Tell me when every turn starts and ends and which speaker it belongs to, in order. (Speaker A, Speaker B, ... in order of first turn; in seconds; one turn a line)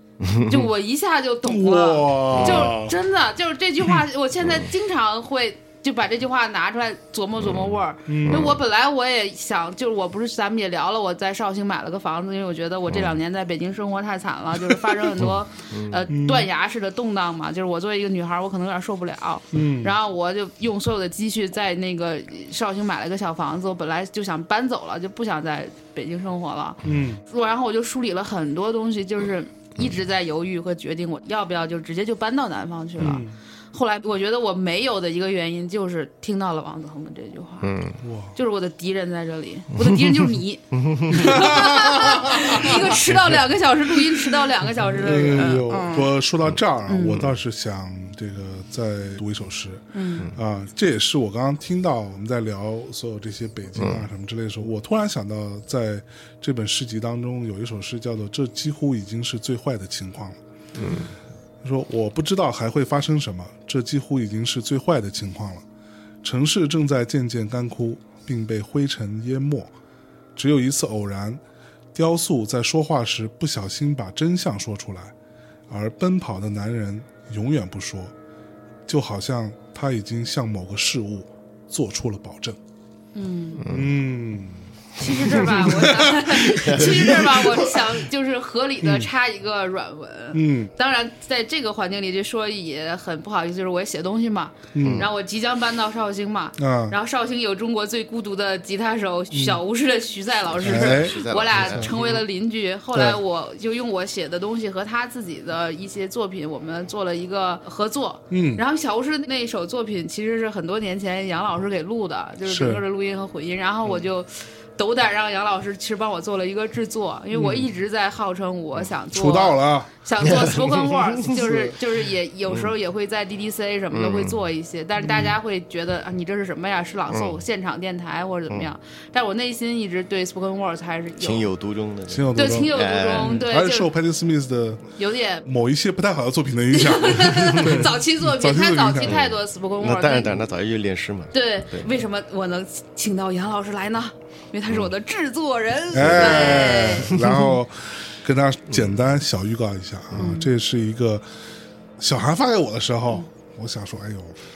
Speaker A: 0.2-0.7
Speaker B: 0.4-37.7
Speaker C: 1.4-3.0
Speaker A: 2.3-2.7
Speaker A: 7.4-8.6
Speaker C: 8.1-8.6
Speaker A: 12.9-13.2
Speaker A: 15.7-16.0
Speaker C: 16.1-16.5
Speaker C: 19.5-19.9
Speaker C: 26.8-27.2
Speaker C: 33.0-33.3
Speaker A: 37.6-38.0
Speaker C: 38.0-38.4
Speaker B: 38.4-46.2
Speaker C: 39.9-40.3
Speaker A: 40.7-41.7
Speaker C: 41.1-43.5
Speaker C: 44.8-60.4
Speaker B: 46.9-47.2
Speaker B: 49.9-50.3
Speaker A: 53.8-54.0
Speaker A: 60.8-61.1
Speaker C: 61.6-65.6
Speaker C: 66.2-69.7
Speaker C: 70.4-71.4
Speaker C: 72.0-75.1
Speaker C: 75.7-78.1
Speaker C: 78.9-82.6
Speaker B: 83.2-83.6
Speaker A: 83.6-84.0
Speaker C: 83.7-87.8
Speaker B: 85.0-131.5
Speaker A: 86.6-87.3
Speaker C: 88.8-89.1
Speaker C: 90.3-90.7
Speaker C: 94.8-95.1
Speaker A: 94.8-95.1
Speaker C: 96.6-97.0
Speaker C: 99.3-99.6
Speaker A: 100.5-102.1
Speaker C: 100.6-102.1
Speaker C: 102.9-103.2
Speaker C: 108.3-108.6
Speaker C: 112.5-112.8
Speaker C: 117.3-117.7
Speaker C: 119.1-119.9
Speaker A: 120.2-121.0
Speaker C: 121.3-121.7
Speaker A: 123.9-124.4
Speaker C: 125.1-125.3
Speaker A: 127.1-127.4
Speaker A: 131.2-133.4
Speaker C: 132.1-134.9
Speaker B: 132.4-133.9
Speaker B: 135.0-135.4
Speaker C: 135.4-139.2
Speaker B: 136.7-140.4
Speaker A: 139.0-141.9
Speaker B: 141.3-147.6
Speaker C: 145.9-151.2
Speaker A: 146.0-147.3
Speaker B: 150.2-150.5
Speaker C: 152.0-154.4